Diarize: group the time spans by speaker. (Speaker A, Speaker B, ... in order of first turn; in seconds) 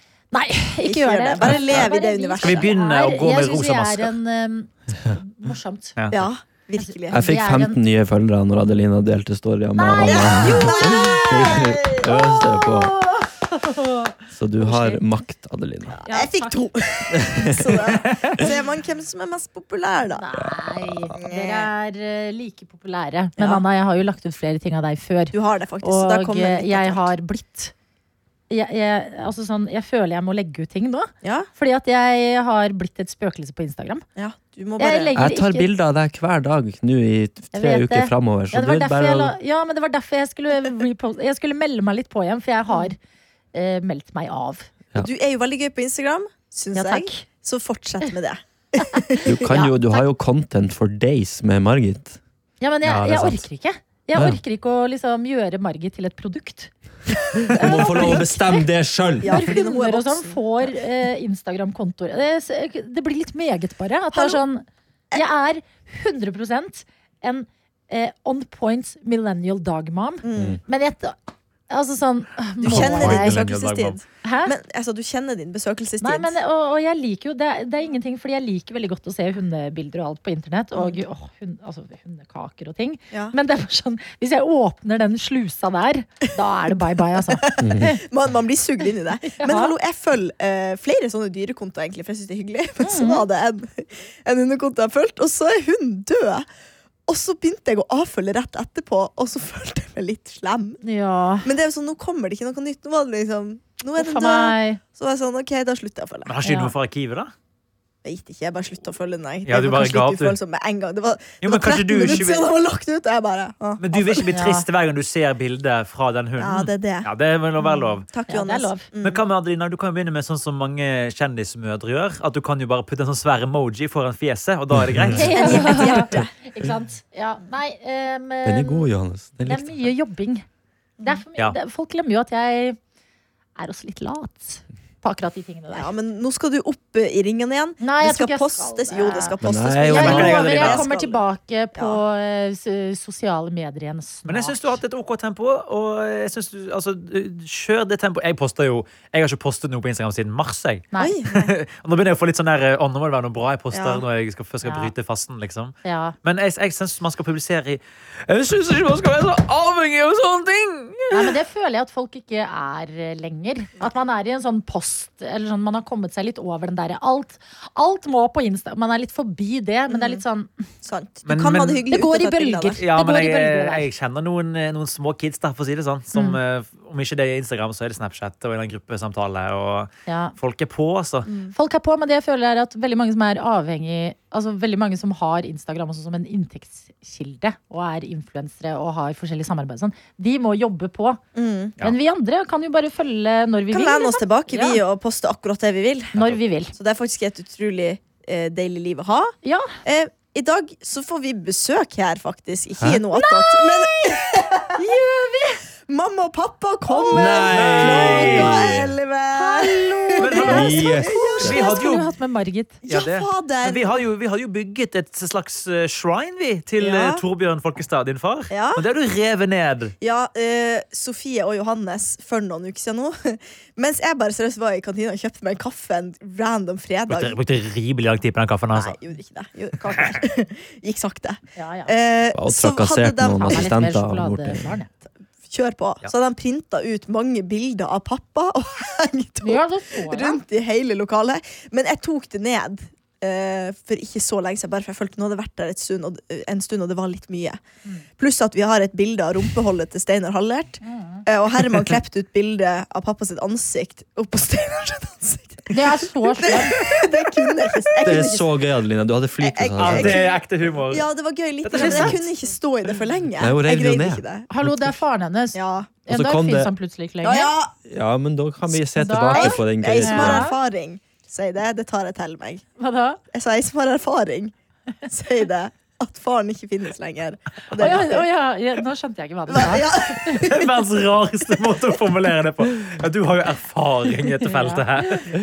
Speaker A: 0.3-6.0, 6.8-7.8, 9.8-15.0, 16.1-16.6, 20.1-27.7, 28.5-34.0, 34.8-35.7, 37.5-43.0, 43.5-44.7, 46.8-47.2, 48.9-50.0, 52.6-56.7, 57.5-58.7, 59.2-71.2, 71.7-73.4, 74.2-74.5, 76.0-88.0, 89.3-89.7, 92.8-93.2, 100.8-101.5, 104.0-104.8, 106.4-106.7, 114.3-114.7, 117.7-118.9, 125.1-128.9, 129.5-130.4, 131.0-132.8, 133.6-135.9, 137.8-144.8, 154.6-154.9, 155.8-156.2, 161.1-170.5, 171.9-173.9, 180.1-180.3, 181.5-191.2, 191.8-194.8, 196.2-196.7, 199.4-199.7, 203.1-204.0, 204.8-205.6, 206.9-207.2, 209.3-212.8, 231.6-231.9, 233.5-234.9, 239.4-240.4, 250.8-251.2, 255.7-256.8, 261.8-262.1, 264.5-267.5, 269.0-270.6, 272.8-273.2, 277.8-280.4, 284.4-285.3
Speaker B: 0.8-2.7, 6.1-7.2, 10.0-12.1, 15.9-20.2, 21.2-21.7, 25.3-27.1, 31.2-31.5, 34.2-35.1, 45.0-49.5, 57.5-58.2, 59.2-60.8, 64.1-64.4, 70.2-70.6, 72.6-76.3, 83.1-83.4, 87.3-96.5, 97.1-100.8, 101.4-106.4, 108.0-114.3, 116.4-117.1, 118.1-119.2, 125.3-126.3, 135.7-141.2, 151.0-151.5, 153.7-154.0, 169.9-170.2, 170.8-172.8, 181.3-181.5, 191.3-191.8, 193.7-196.2, 196.8-204.9, 205.9-211.8, 212.9-214.0, 216.8-217.2, 218.5-218.8, 220.0-227.4, 228.7-233.7, 235.5-247.6, 248.2-258.5, 259.4-264.5, 265.6-265.9, 267.2-267.7, 269.4-272.6, 273.3-274.5, 275.1-278.3, 279.5-280.8
Speaker C: 2.4-4.1, 52.8-53.4, 72.7-74.0, 106.3-107.3, 109.5-110.4, 111.4-112.5, 113.8-118.1, 119.0-126.0, 139.9-140.8, 144.3-161.4, 171.3-171.8, 172.8-181.3, 207.5-208.8, 210.2-210.8, 211.4-212.1, 212.9-219.9, 227.1-229.0, 259.8-261.1, 261.6-262.2, 280.4-285.3
Speaker D: 7.1-12.9, 14.3-16.0, 17.2-17.9, 20.4-21.1, 35.1-39.4, 49.2-52.2, 57.5-59.4, 87.6-87.9, 124.8-125.3, 128.4-129.9, 139.4-140.4, 202.8-203.0, 207.1-209.0, 210.4-211.6, 232.3-234.7, 258.0-260.2, 263.4-265.0, 266.1-266.7, 267.9-270.5